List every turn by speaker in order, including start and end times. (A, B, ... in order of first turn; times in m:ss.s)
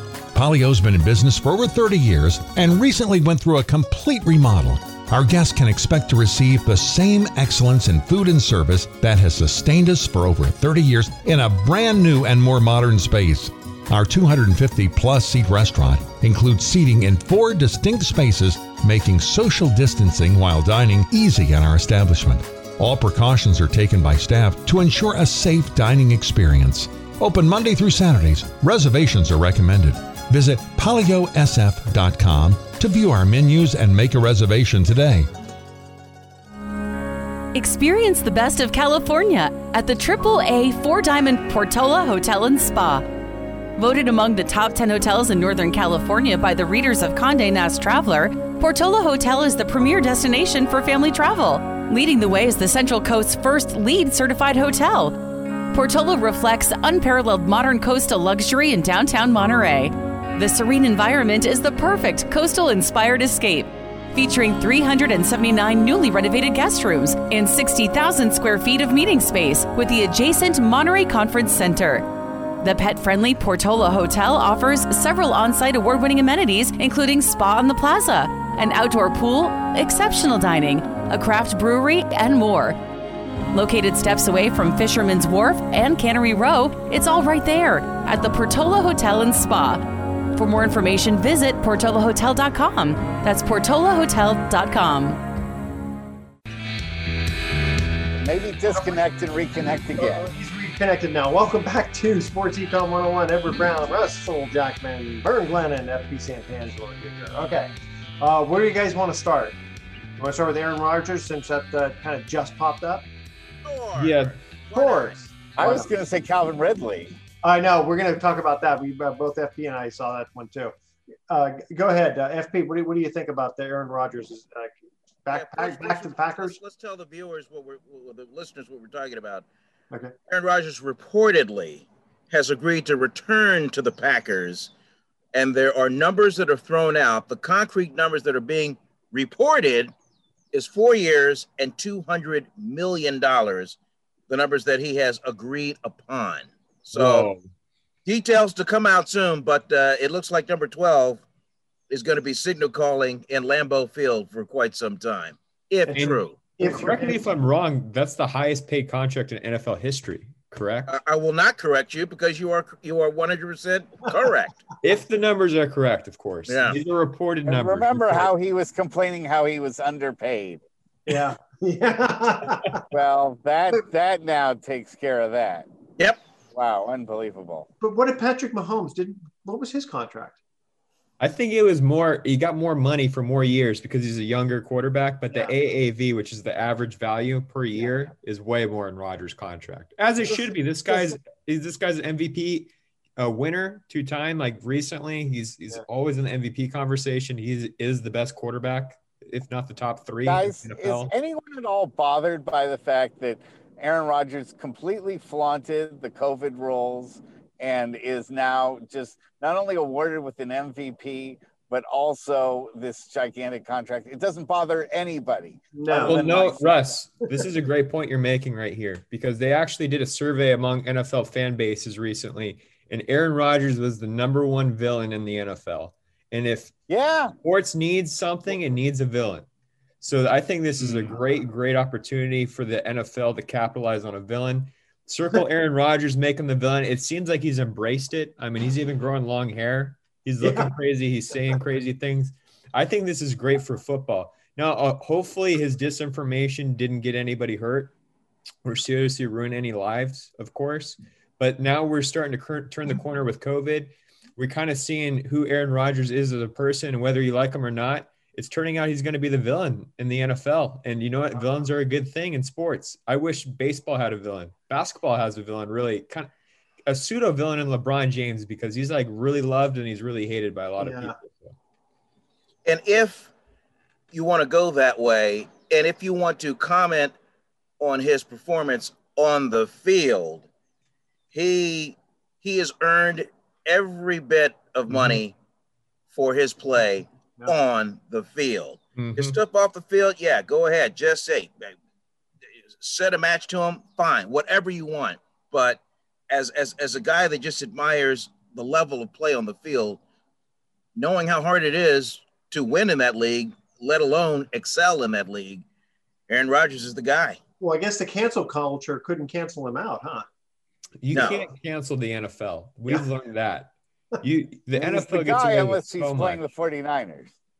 0:00.3-0:35.3 A
0:37.5-0:43.1 B
0:43.8-1:12.1 B
1:12.6-1:22.8 B
1:23.5-1:35.2 B
1:38.2-1:40.2 C
1:38.7-1:39.0 D
1:40.0-1:47.7 D
1:48.2-1:49.6 D
1:50.2-1:53.0 D
1:53.6-1:55.2 E
1:53.9-1:54.4 F
1:54.7-1:55.9 D
1:55.6-1:57.1 C
1:57.4-2:00.7 D
2:01.3-2:04.7 D
2:05.2-2:06.6 D
2:05.3-2:09.4 E
2:10.3-2:14.7 E
2:15.3-2:19.9 E
2:20.5-2:23.8 E
2:24.3-2:27.3 E
2:26.9-2:27.5 F
2:28.0-2:31.2 E
2:31.9-2:36.4 E
2:35.9-2:41.0 F
2:36.6-2:37.3 D
2:40.9-2:44.6 E
2:44.8-2:48.3 F
2:46.5-2:46.8 E
2:47.4-2:50.6 C
2:51.1-2:52.8 D
2:52.9-2:55.7 C
2:56.5-2:57.7 C
2:57.8-3:00.4 D
3:01.2-3:21.1 F
3:10.2-3:11.2 D
3:20.2-3:36.7 C
3:35.7-3:36.3 D
3:36.0-3:46.7 F
3:46.9-3:47.3 C
3:47.4-3:49.5 F
3:50.0-4:07.9 F
3:50.8-3:51.1 D
4:00.4-4:00.7 D
4:08.6-4:26.3 F
4:26.9-4:31.5 F
4:30.8-4:31.1 D
4:32.6-4:33.3 E
4:34.1-4:37.1 E
4:37.8-4:40.5 E
4:41.3-4:45.3 E
4:44.9-4:45.2 F
4:46.1-4:51.8 E
4:48.9-4:49.4 F
4:52.8-5:00.0 E
5:01.0-5:05.6 E
5:06.3-5:07.4 E
5:07.6-5:10.2 D
5:11.0-5:16.4 F
5:11.1-5:11.5 E
5:14.7-5:17.3 C